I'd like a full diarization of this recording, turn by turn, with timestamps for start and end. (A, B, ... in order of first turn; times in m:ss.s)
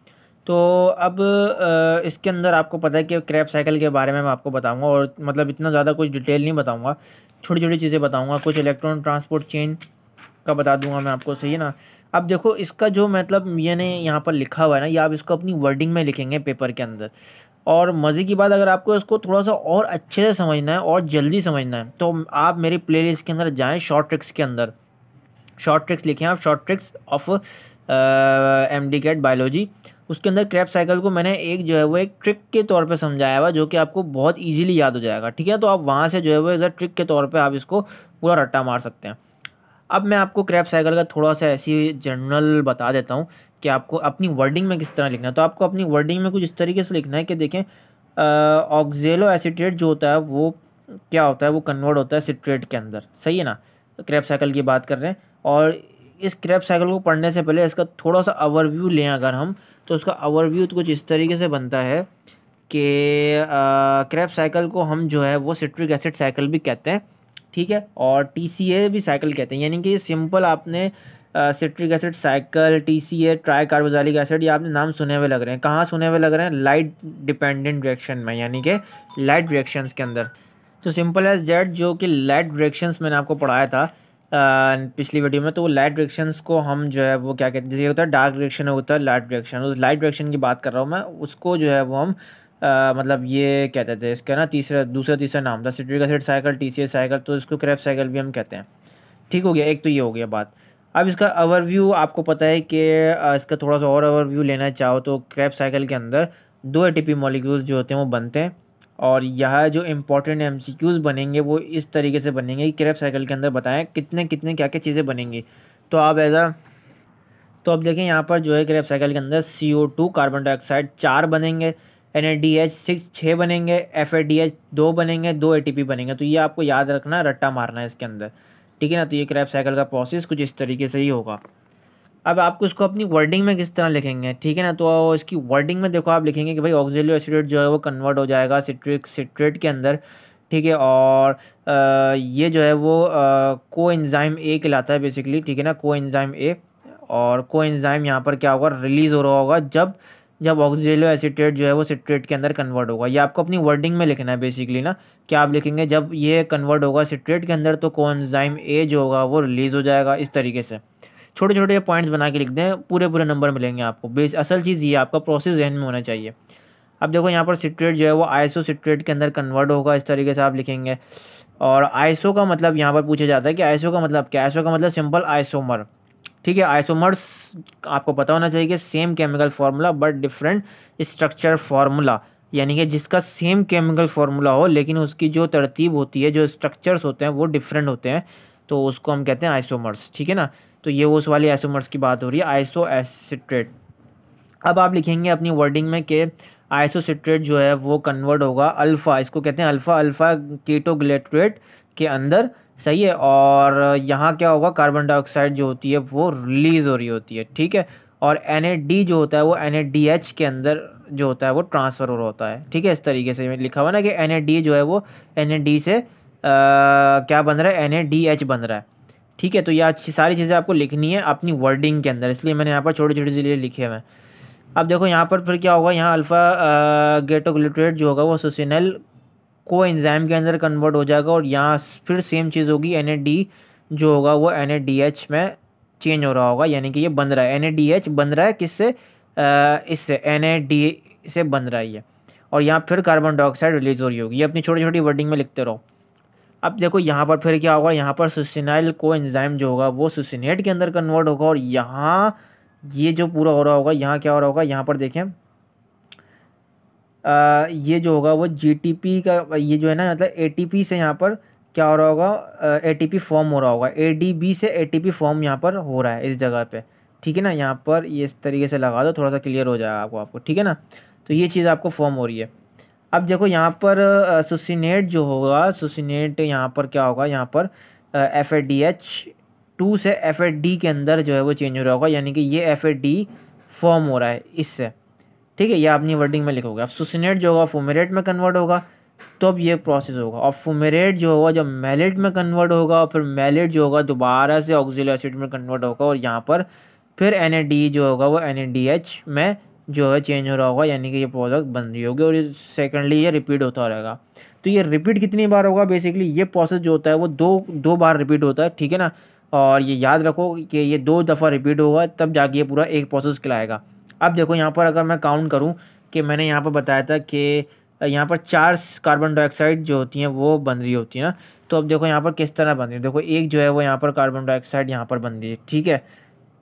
0:00.5-0:09.8 A
0:10.4-0:17.1 A
0:17.7-0:24.7 A
0:25.6-0:39.2 A
0:39.9-0:50.6 A
0:51.1-1:02.1 A
1:02.7-1:20.3 A
1:20.8-1:38.7 A
1:39.3-1:56.6 A
1:57.6-2:11.4 A
2:12.3-2:40.8 A
2:41.4-2:46.3 A
2:47.0-2:51.0 A
2:51.6-2:55.9 A
2:56.4-3:13.7 A
3:14.7-3:38.9 A
3:39.4-3:44.0 A
3:44.8-3:49.0 A
3:49.7-4:05.8 A
4:06.6-4:15.4 A
4:17.2-4:32.5 A
4:33.1-4:44.9 A
4:45.6-4:48.8 A
4:49.4-4:56.7 A
4:57.2-5:26.0 A